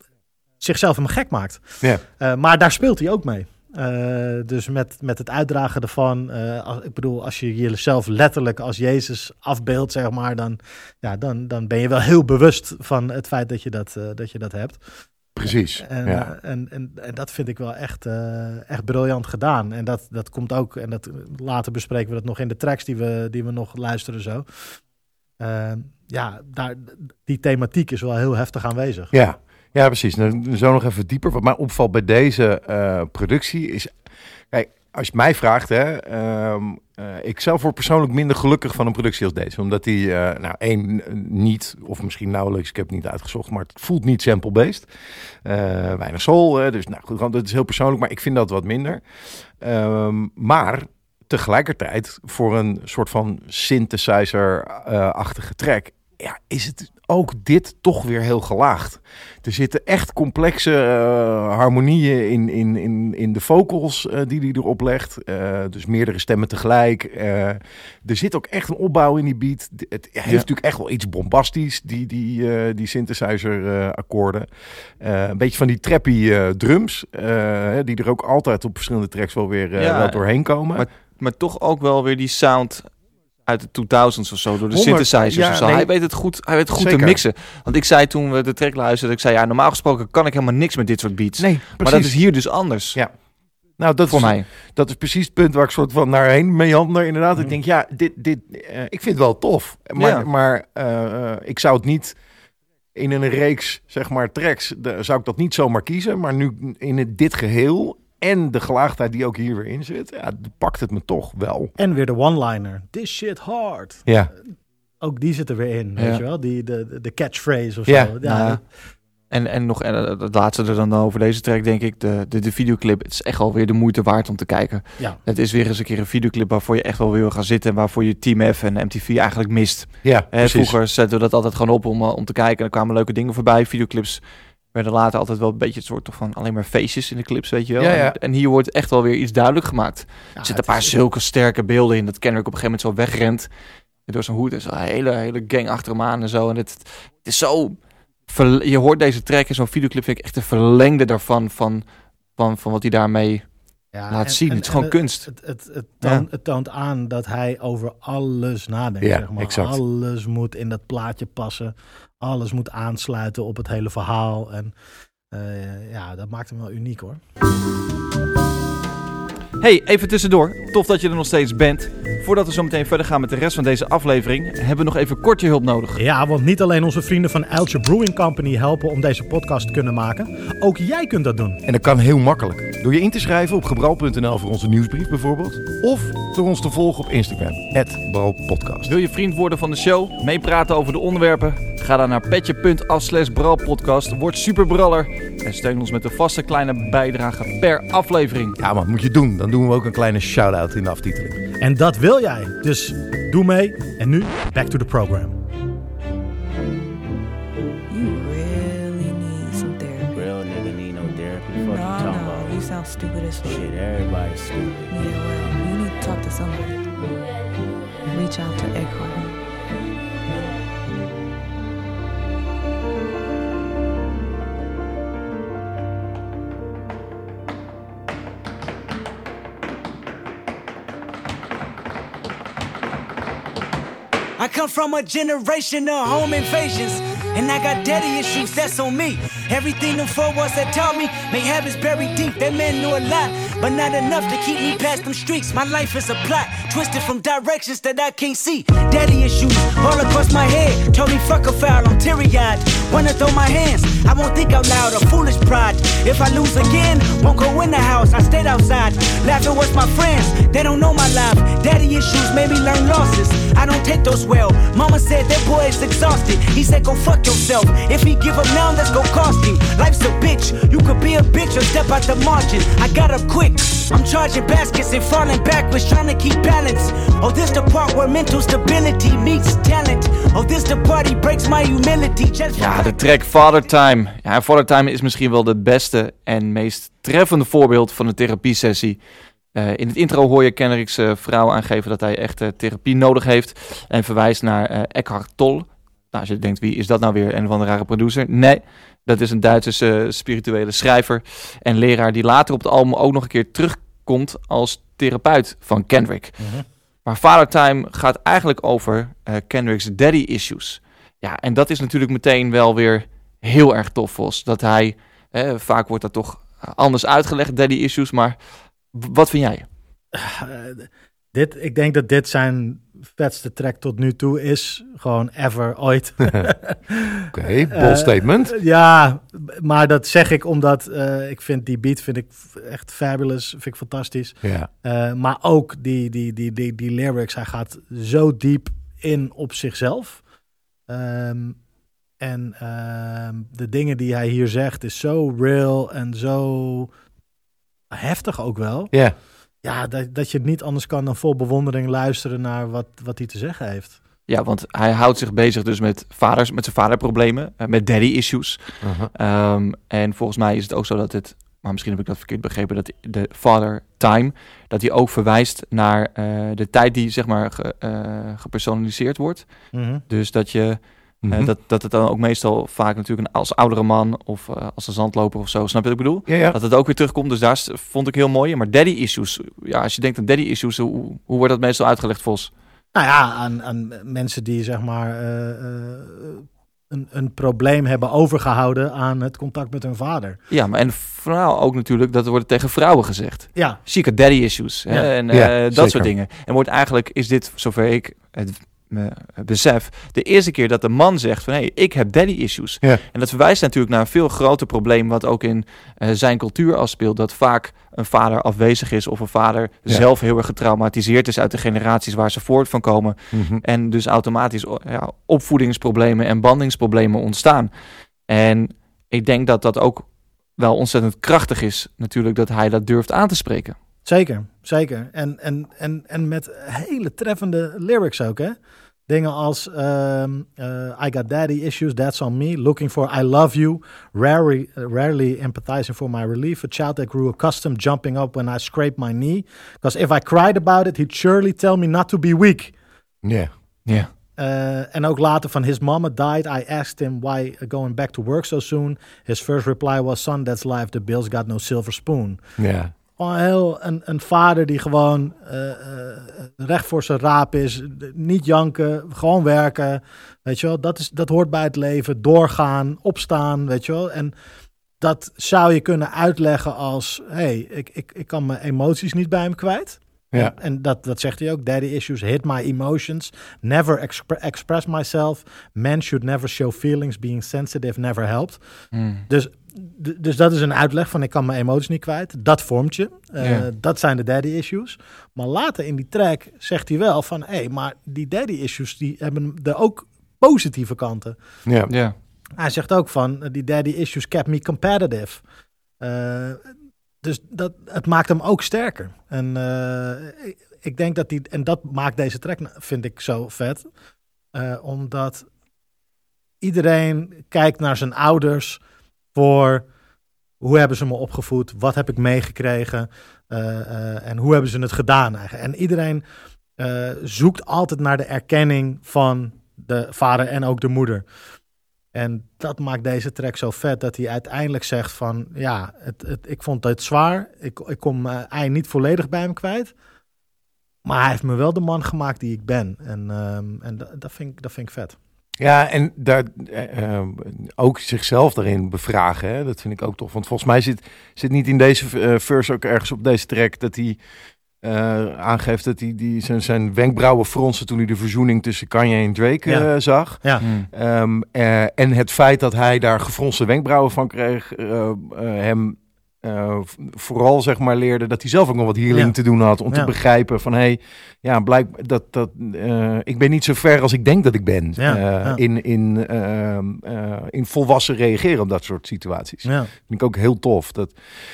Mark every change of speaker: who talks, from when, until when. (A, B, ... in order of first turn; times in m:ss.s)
0:00.6-0:14.8 A
0:15.4-0:16.3 B
0:15.8-0:24.6 A
0:25.4-0:29.1 A
0:29.1-0:33.9 B
0:34.5-0:44.9 B
0:45.4-0:49.0 B
0:49.6-1:14.5 B
1:15.0-1:20.9 B
1:19.8-1:22.9 C
1:23.4-1:33.0 C
1:24.7-1:25.9 B
1:26.8-1:27.2 B
1:31.4-1:32.2 B
1:33.8-1:42.2 B
1:34.1-1:34.5 C
1:40.0-1:40.3 C
1:42.9-1:51.7 B
1:51.8-1:54.1 A
1:54.0-1:54.3 B
1:55.0-1:58.6 A
1:56.0-1:56.2 C
1:57.9-1:58.1 B
1:58.2-1:58.6 C
1:59.3-2:14.2 C
2:10.0-2:10.8 B
2:14.7-2:23.5 C
2:17.8-2:18.2 B
2:20.4-2:21.0 A
2:24.1-2:31.8 C
2:32.4-2:33.5 C
2:33.9-2:44.7 A
2:34.1-2:35.3 C
2:39.0-2:39.8 B
2:45.3-2:47.2 A
2:49.6-2:56.0 C
2:56.0-3:01.6 A
3:01.6-3:08.9 B
3:08.8-3:18.6 C
3:18.6-3:21.4 B
3:21.6-3:25.4 A
3:27.9-3:30.3 D
3:30.1-3:32.7 E
3:31.6-3:33.7 D
3:33.4-3:35.0 E
3:34.9-3:36.8 D
3:38.1-3:39.4 D
3:54.4-4:43.0 F
4:42.6-4:49.0 C
4:49.5-5:06.5 C
5:06.4-5:06.6 A
5:07.0-5:18.4 C
5:18.9-5:19.6 C
5:20.1-5:27.2 A
5:26.2-5:26.5 B
5:27.3-5:28.5 B
5:27.7-5:40.2 A
5:34.4-5:34.7 B
5:40.9-5:41.6 A
5:42.2-5:46.9 A
5:47.9-5:48.9 A
5:49.6-5:54.0 A
5:54.3-6:09.4 C
5:58.8-5:59.1 B
6:09.7-6:10.0 A
6:10.1-6:22.5 C
6:11.2-6:11.5 B
6:16.3-6:16.6 B
6:22.9-6:30.4 A
6:30.5-6:57.7 C
6:35.3-6:36.1 B
6:53.3-6:53.6 B
6:58.3-7:03.7 C
7:04.0-7:08.6 A
7:09.1-7:22.7 A
7:23.2-7:23.5 B
7:24.4-7:32.4 A
7:32.6-7:32.9 B
7:33.2-7:44.3 A
7:45.0-7:58.6 A
7:58.9-7:59.2 C
7:59.3-8:11.4 A
8:03.4-8:03.6 C
8:11.6-8:11.9 B
8:11.9-8:12.1 C
8:12.6-8:15.4 A
8:16.0-8:16.6 A
8:17.2-8:23.8 A
8:24.5-8:25.5 A
8:26.6-8:28.8 A
8:29.3-8:29.9 A
8:30.6-8:36.2 A
8:36.8-8:41.2 A
8:42.1-8:49.9 A
8:51.0-8:55.2 A
8:55.6-9:04.2 B
9:04.8-9:31.1 B
9:10.6-9:10.9 C
9:19.1-9:19.3 A
9:19.9-9:20.1 A
9:25.0-9:25.6 A
9:29.6-9:29.9 A